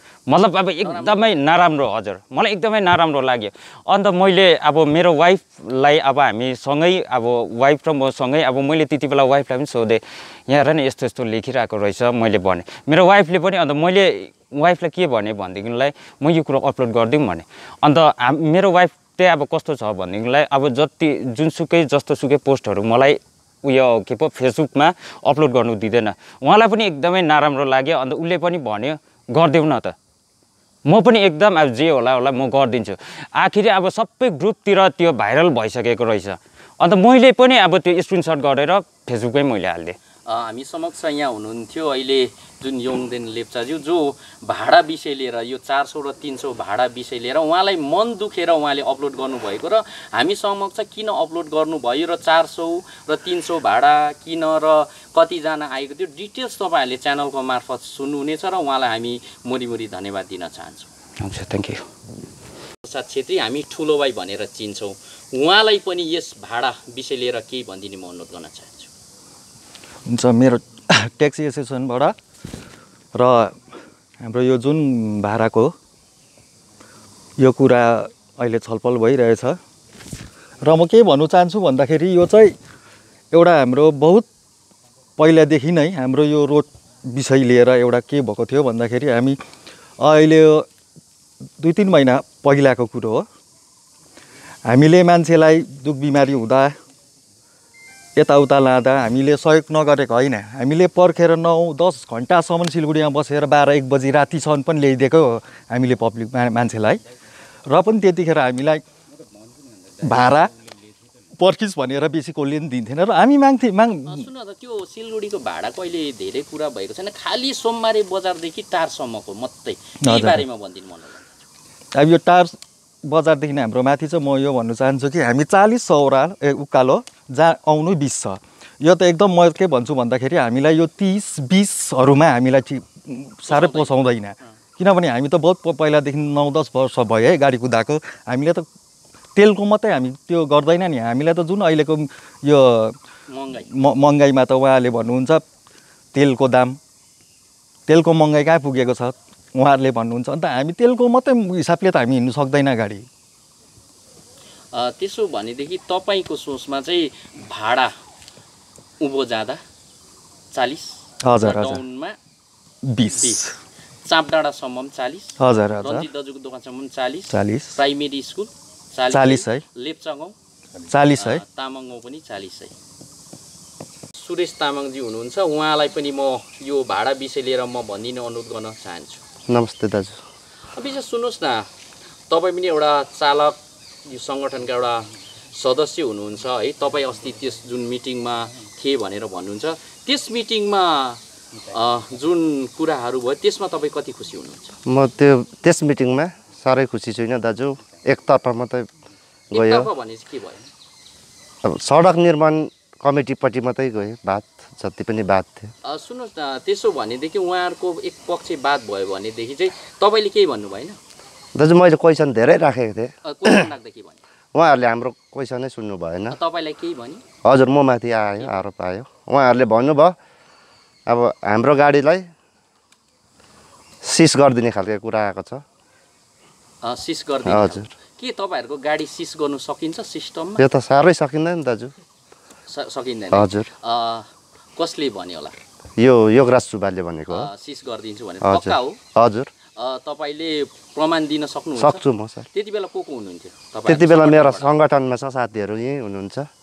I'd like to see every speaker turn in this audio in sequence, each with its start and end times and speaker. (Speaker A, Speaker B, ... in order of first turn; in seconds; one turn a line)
Speaker A: 0.3-29.9
Speaker B: 0.8-1.3
Speaker A: 30.9-40.0
Speaker B: 40.3-60.9
Speaker A: 61.2-61.8
Speaker B: 62.8-68.9
Speaker C: 70.1-72.1
Speaker C: 73.1-73.6
Speaker C: 74.2-75.7
Speaker C: 77.4-79.6
Speaker C: 80.6-82.5
Speaker C: 83.3-84.2
Speaker C: 85.2-89.4
Speaker C: 90.0-90.7
Speaker C: 91.6-93.2
Speaker C: 94.7-96.7
Speaker C: 98.2-107.0
Speaker C: 107.7-108.8
Speaker C: 110.0-110.5
Speaker C: 111.4-114.3
Speaker B: 114.1-121.4
Speaker C: 120.0-120.4
Speaker C: 121.9-138.7
Speaker B: 133.5-134.5
Speaker C: 139.3-142.9
Speaker B: 143.3-143.7
Speaker C: 143.6-145.4
Speaker C: 146.1-146.8
Speaker C: 147.9-153.1
Speaker B: 154.7-157.9
Speaker B: 159.0-159.6
Speaker B: 160.5-162.2
Speaker C: 161.2-161.8
Speaker C: 162.8-163.5
Speaker B: 164.0-170.3
Speaker C: 165.4-166.1
Speaker C: 167.3-167.7
Speaker C: 169.1-169.6
Speaker C: 170.9-171.4
Speaker B: 171.2-172.7
Speaker B: 174.2-179.2
Speaker D: 179.5-180.2
Speaker B: 180.7-181.7
Speaker B: 182.3-191.2
Speaker B: 191.7-194.8
Speaker D: 194.9-198.9
Speaker D: 199.5-199.9
Speaker B: 199.5-200.6
Speaker D: 201.7-205.7
Speaker B: 205.8-211.0
Speaker D: 211.6-213.6
Speaker B: 213.2-214.2
Speaker D: 214.5-216.4
Speaker B: 216.3-217.2
Speaker D: 217.4-220.1
Speaker D: 221.1-222.3
Speaker D: 224.0-225.6
Speaker B: 226.8-230.7
Speaker D: 227.4-227.9
Speaker D: 230.6-231.9
Speaker B: 232.7-234.2
Speaker D: 233.3-233.7
Speaker B: 234.8-235.6
Speaker D: 236.0-237.5
Speaker B: 237.3-239.0
Speaker D: 238.4-239.5
Speaker B: 239.8-244.7
Speaker D: 241.8-242.4
Speaker D: 243.9-246.5